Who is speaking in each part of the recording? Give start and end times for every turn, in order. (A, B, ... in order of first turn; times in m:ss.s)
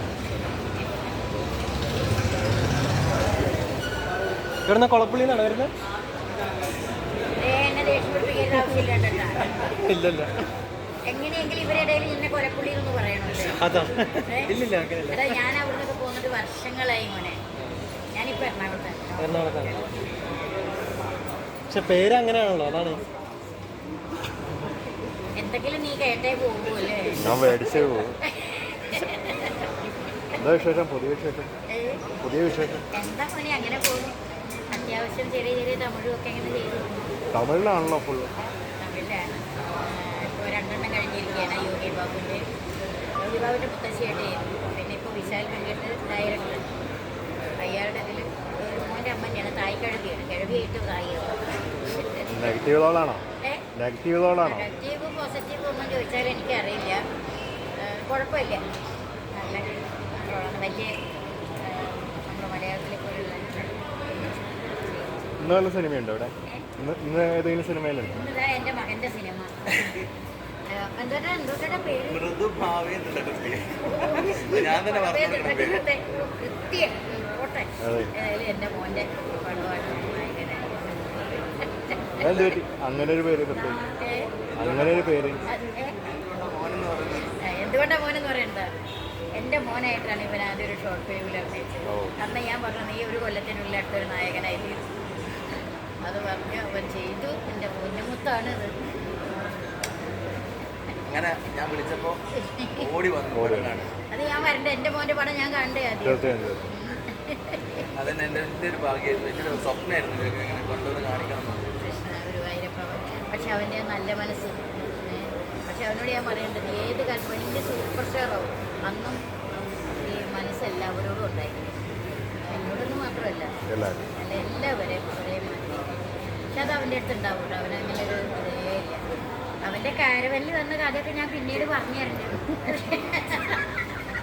0:00.8-0:01.0 A
0:04.7-0:05.7 B
0:07.4-0:09.6 A
0:09.8-0:10.3 B
0:11.1-0:13.6 A
0:13.6-0:15.4 B
0:14.2-0:17.4 A
0:18.1-0:19.8 A
0:19.2-0:19.8 B
0:21.7-0:23.0 B
0:25.4-0:27.6 A
0:27.2-0:28.1 C
0:28.2-0:29.7 A
0:30.4-0:31.5 C
0:31.7-0:32.0 A
0:32.2-0:32.8 C
0:32.9-0:34.2 A
0:34.7-0:37.1 A
0:37.3-0:38.3 C
0:38.8-0:42.4 A
0:43.2-0:46.7 A
0:47.6-0:52.3 A
0:52.3-0:53.2 C
0:53.7-0:54.7 C
0:54.4-0:57.0 A
0:57.8-0:58.6 A
0:59.3-1:00.9 A
1:01.6-1:05.3 A
1:05.4-1:08.1 C
1:08.1-1:10.0 A
1:10.7-1:12.2 A
1:12.1-1:15.8 D
1:13.8-1:22.1 A
1:17.8-1:18.1 C
1:22.2-1:23.9 C
1:22.2-1:22.6 D
1:23.9-1:24.3 A
1:24.6-1:25.4 D
1:24.6-1:25.4 C
1:25.5-1:26.0 A
1:26.0-1:27.4 D
1:27.4-1:28.7 A
1:29.3-1:34.8 A
1:31.9-1:32.1 C
1:36.0-1:38.7 A
1:41.1-1:43.9 D
1:42.3-1:42.9 A
1:43.3-1:43.9 C
1:44.1-1:47.8 A
1:46.0-1:46.6 C
1:47.9-1:51.7 D
1:51.7-1:59.2 A
2:00.0-2:01.8 A
2:02.4-2:03.5 A
2:03.7-2:04.1 C
2:04.2-2:09.1 A
2:09.6-2:13.6 A